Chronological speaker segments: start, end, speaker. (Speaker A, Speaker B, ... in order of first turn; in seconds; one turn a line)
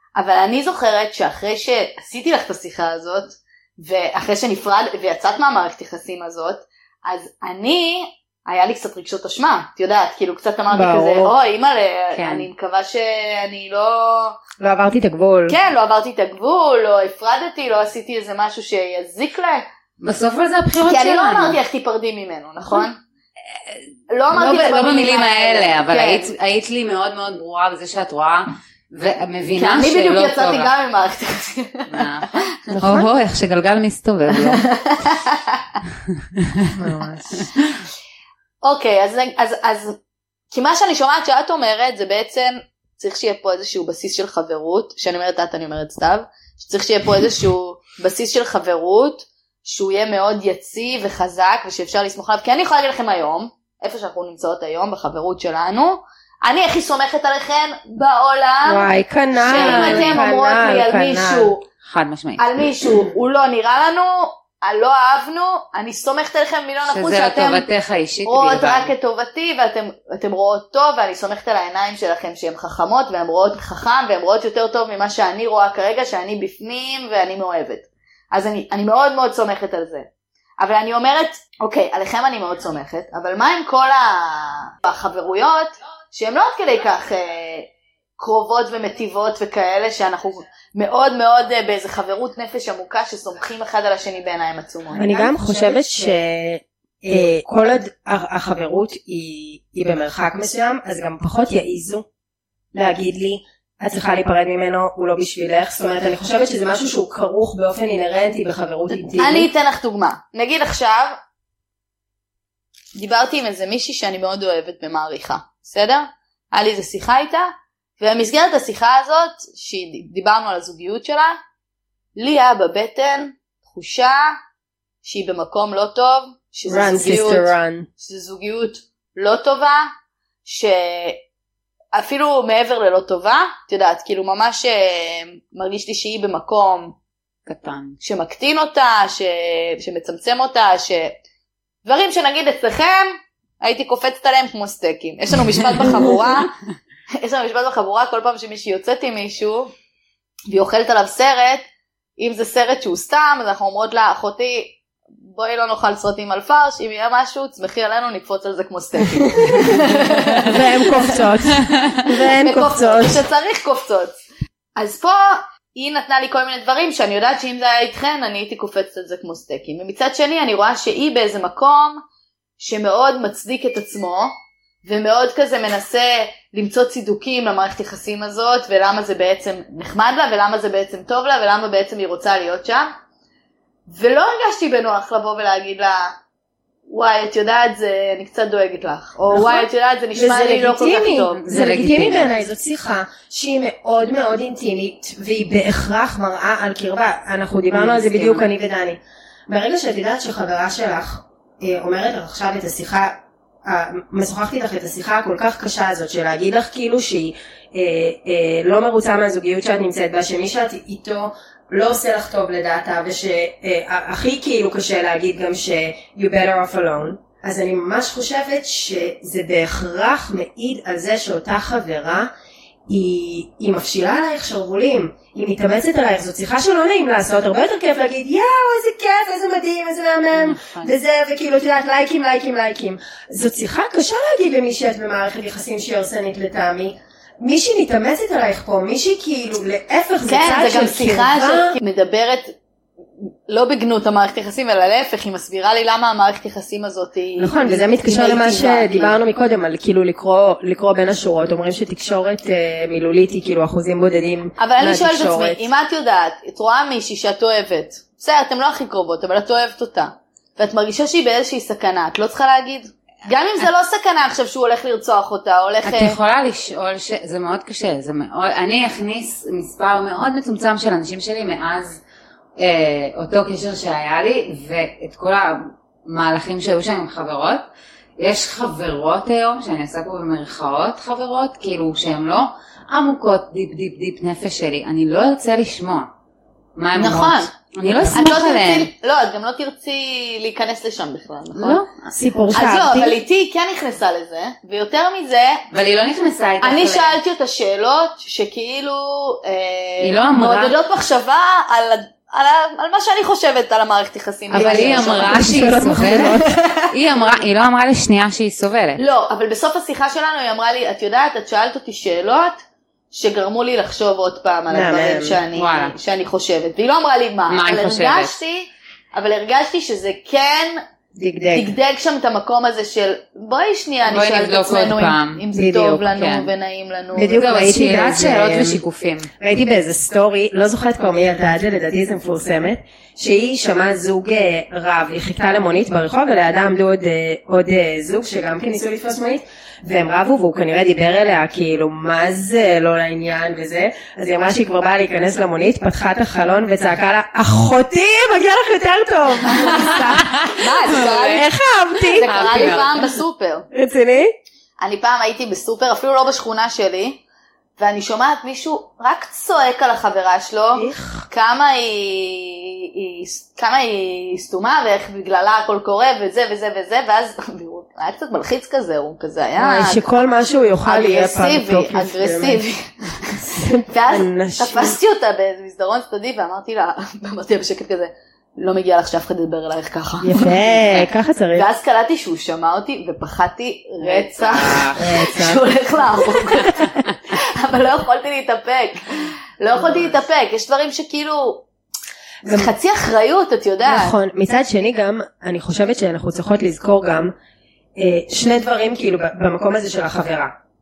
Speaker A: 0.2-14.4
Speaker B: 10.7-11.3
Speaker C: 12.2-12.5
Speaker B: 14.6-15.6
Speaker A: 15.5-19.7
Speaker C: 20.0-21.6
Speaker A: 20.9-23.0
Speaker A: 24.1-26.3
Speaker C: 24.3-30.7
Speaker A: 29.6-32.0
Speaker C: 31.9-34.6
Speaker B: 32.7-33.1
Speaker A: 34.4-35.8
Speaker B: 36.8-37.5
Speaker A: 38.6-40.0
Speaker A: 40.5-61.6
Speaker B: 58.7-61.5
Speaker C: 59.4-60.2
Speaker C: 61.8-62.5
Speaker A: 62.4-67.7
Speaker C: 66.9-68.9
Speaker A: 68.3-80.1
Speaker A: 80.6-95.8
Speaker B: 95.0-102.1
Speaker B: 102.7-109.5
Speaker A: 109.1-111.2
Speaker A: 113.0-121.4
Speaker A: 122.2-124.3
Speaker A: 125.0-129.9
Speaker B: 126.7-127.9
Speaker A: 130.4-131.2
Speaker A: 131.9-136.9
Speaker C: 137.5-138.0
Speaker A: 138.0-141.1
Speaker A: 141.8-146.5
Speaker A: 147.2-149.7
Speaker A: 150.5-151.7
Speaker A: 152.2-161.2
Speaker B: 159.3-159.8
Speaker B: 160.4-163.2
Speaker A: 162.4-164.2
Speaker A: 164.8-172.0
Speaker A: 172.6-174.3
Speaker A: 174.8-182.9
Speaker A: 183.9-186.2
Speaker A: 186.9-191.6
Speaker B: 189.3-222.3
Speaker C: 191.4-192.3
Speaker C: 197.7-198.4
Speaker B: 222.9-241.8
Speaker C: 230.3-230.9
Speaker A: 240.3-242.6
Speaker A: 243.2-249.2
Speaker B: 247.4-255.6
Speaker A: 254.6-266.2
Speaker C: 265.8-272.0
Speaker C: 272.6-277.6
Speaker C: 278.2-286.1
Speaker C: 286.8-288.9
Speaker A: 287.0-287.5
Speaker A: 288.1-291.8
Speaker C: 291.6-292.1
Speaker B: 292.1-293.2
Speaker A: 292.5-295.6
Speaker C: 295.7-297.2
Speaker A: 296.6-306.1
Speaker C: 300.0-300.7
Speaker C: 304.5-309.0
Speaker B: 304.6-306.9
Speaker A: 309.0-312.6
Speaker A: 313.1-320.8
Speaker B: 314.7-315.4
Speaker C: 315.6-315.9
Speaker C: 317.5-318.3
Speaker B: 321.2-321.7
Speaker A: 321.5-327.5
Speaker C: 324.1-325.4
Speaker B: 325.6-326.0
Speaker C: 326.1-326.5
Speaker B: 327.1-328.8
Speaker C: 327.4-329.3
Speaker B: 329.4-352.8
Speaker C: 349.5-353.2
Speaker A: 350.6-351.5
Speaker A: 352.2-353.7
Speaker B: 353.7-354.3
Speaker A: 354.8-357.2
Speaker A: 357.8-370.1
Speaker B: 360.8-361.3
Speaker B: 369.6-372.6
Speaker A: 370.9-380.5
Speaker B: 373.4-375.0
Speaker B: 380.2-381.7
Speaker A: 381.5-391.7
Speaker C: 384.0-385.0
Speaker B: 385.0-385.6
Speaker B: 386.3-386.7
Speaker B: 389.8-390.1
Speaker B: 392.4-392.7
Speaker A: 392.5-394.2
Speaker B: 393.9-397.3
Speaker B: 398.0-400.5